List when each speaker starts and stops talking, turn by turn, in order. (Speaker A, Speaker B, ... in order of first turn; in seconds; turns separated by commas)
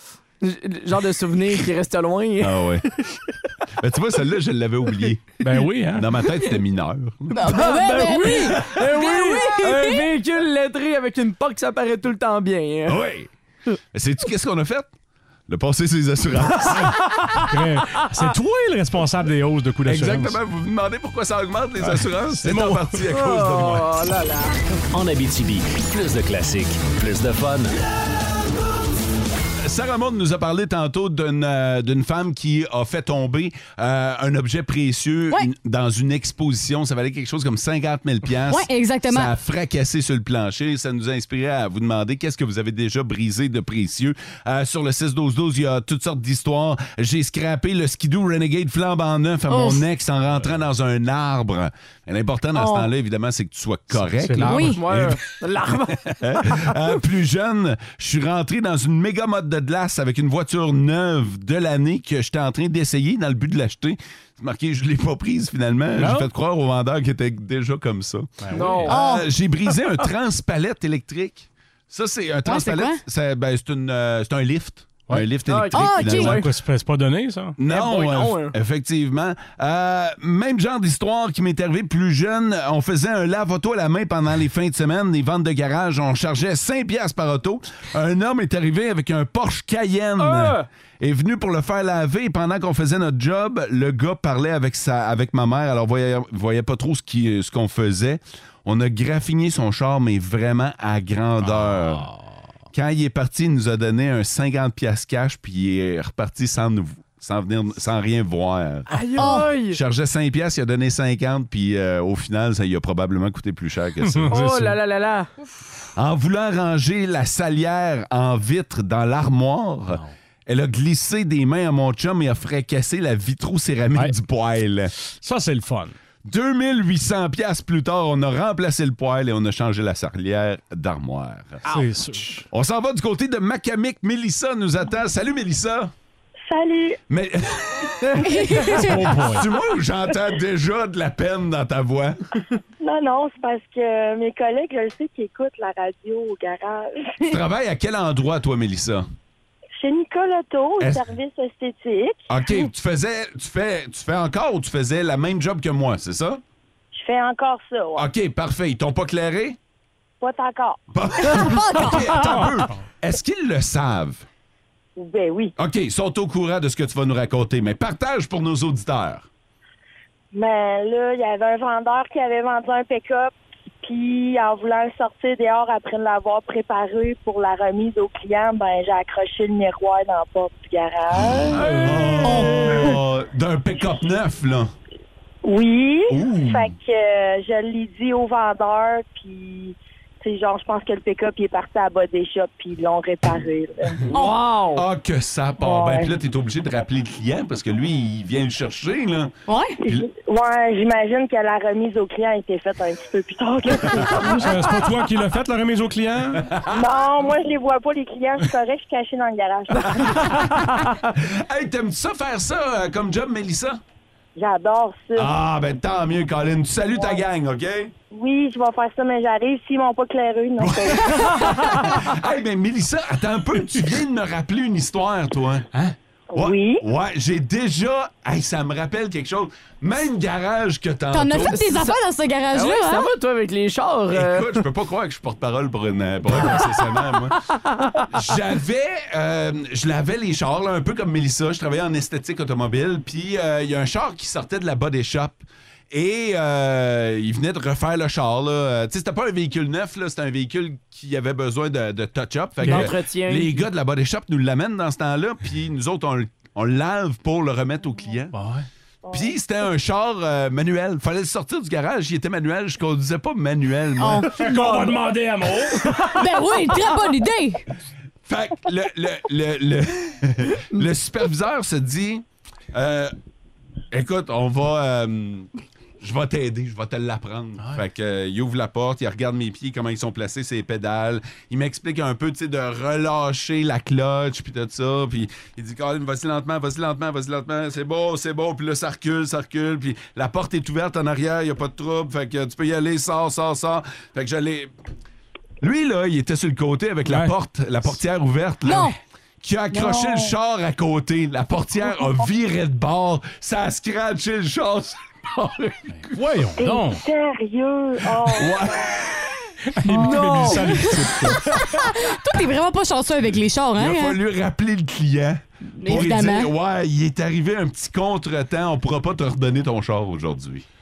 Speaker A: 0.4-3.0, Speaker B: 2.4-2.8, Speaker B: 3.8-5.3, Speaker C: 5.4-6.1, Speaker B: 5.9-7.5, Speaker D: 7.3-10.0, Speaker A: 7.4-13.0, Speaker B: 12.9-13.3, Speaker B: 13.9-14.9, Speaker B: 15.5-17.0, Speaker C: 16.8-20.4, Speaker B: 19.8-24.1, Speaker C: 21.8-22.9, Speaker A: 23.1-24.6, Speaker E: 24.9-27.7, Speaker B: 29.6-55.2, Speaker D: 38.5-39.3, Speaker D: 49.5-49.8, Speaker D: 52.5-52.9, Speaker C: 54.0-54.7, Speaker D: 54.4-54.8, Speaker A: 54.7-56.7, Speaker B: 56.2-76.4, Speaker C: 66.0-66.3, Speaker C: 68.4-68.9, Speaker A: 68.5-69.0, Speaker D: 68.9-69.3, Speaker D: 72.4-73.0, Speaker A: 75.5-76.5, Speaker D: 75.7-76.3, Speaker C: 76.1-77.5, Speaker B: 77.6-102.1, Speaker A: 77.6-78.5, Speaker A: 90.2-90.7, Speaker C: 101.5-102.0, Speaker B: 102.7-114.4, Speaker A: 108.9-109.8, Speaker D: 109.2-109.5, Speaker C: 114.0-114.8, Speaker A: 114.3-115.3, Speaker B: 116.0-124.9, Speaker C: 125.2-125.9, Speaker B: 126.2-131.6, Speaker C: 131.7-132.4, Speaker B: 132.5-135.9, Speaker F: 136.5-137.0, Speaker B: 137.1-137.9, Speaker A: 138.0-138.7, Speaker D: 138.2-139.0, Speaker B: 138.9-142.2, Speaker C: 138.9-139.4, Speaker F: 142.8-147.4, Speaker B: 147.2-149.1, Speaker F: 149.8-152.2, Speaker B: 152.3-156.4, Speaker F: 156.9-158.1, Speaker B: 157.9-159.6, Speaker F: 160.2-160.8, Speaker B: 160.9-164.2, Speaker D: 161.2-162.2, Speaker F: 164.9-165.5, Speaker B: 165.6-169.3, Speaker F: 170.3-181.8, Speaker B: 181.4-184.7, Speaker A: 181.6-182.5, Speaker D: 182.2-182.5, Speaker F: 185.4-194.0, Speaker B: 186.1-186.7, Speaker A: 194.1-194.8, Speaker B: 194.7-199.3, Speaker F: 195.6-196.1, Speaker D: 199.5-199.7, Speaker F: 199.8-204.9, Speaker B: 203.8-204.3, Speaker C: 204.2-206.5, Speaker B: 206.3-206.8, Speaker F: 206.7-210.3, Speaker B: 209.8-210.5, Speaker A: 209.9-210.9, Speaker B: 211.0-213.8, Speaker F: 214.3-215.3, Speaker B: 215.1-217.9, Speaker F: 218.1-221.6, Speaker B: 220.6-225.7, Speaker F: 226.3-226.8, Speaker B: 226.3-231.6, Speaker D: 231.1-233.1, Speaker A: 231.5-232.0, Speaker A: 232.5-234.7, Speaker B: 234.1-237.4, Speaker A: 237.7-238.0, Speaker B: 238.1-258.3, Speaker C: 252.6-252.9, Speaker A: 252.6-253.6, Speaker C: 258.3-258.6, Speaker F: 259.1-259.4, Speaker B: 259.1-264.4, Speaker D: 264.0-264.3, Speaker C: 264.3-266.3, Speaker A: 264.5-265.0, Speaker D: 266.1-267.6, Speaker B: 268.2-273.1, Speaker B: 273.9-275.5, Speaker B: 276.0-294.7, Speaker B: 295.6-305.5, Speaker D: 298.6-298.9, Speaker D: 299.7-300.3, Speaker C: 306.0-307.0, Speaker F: 306.6-308.7, Speaker B: 308.2-309.3, Speaker C: 309.8-311.6, Speaker A: 309.9-310.8, Speaker D: 310.6-314.2, Speaker B: 313.8-320.6, Speaker D: 315.8-316.5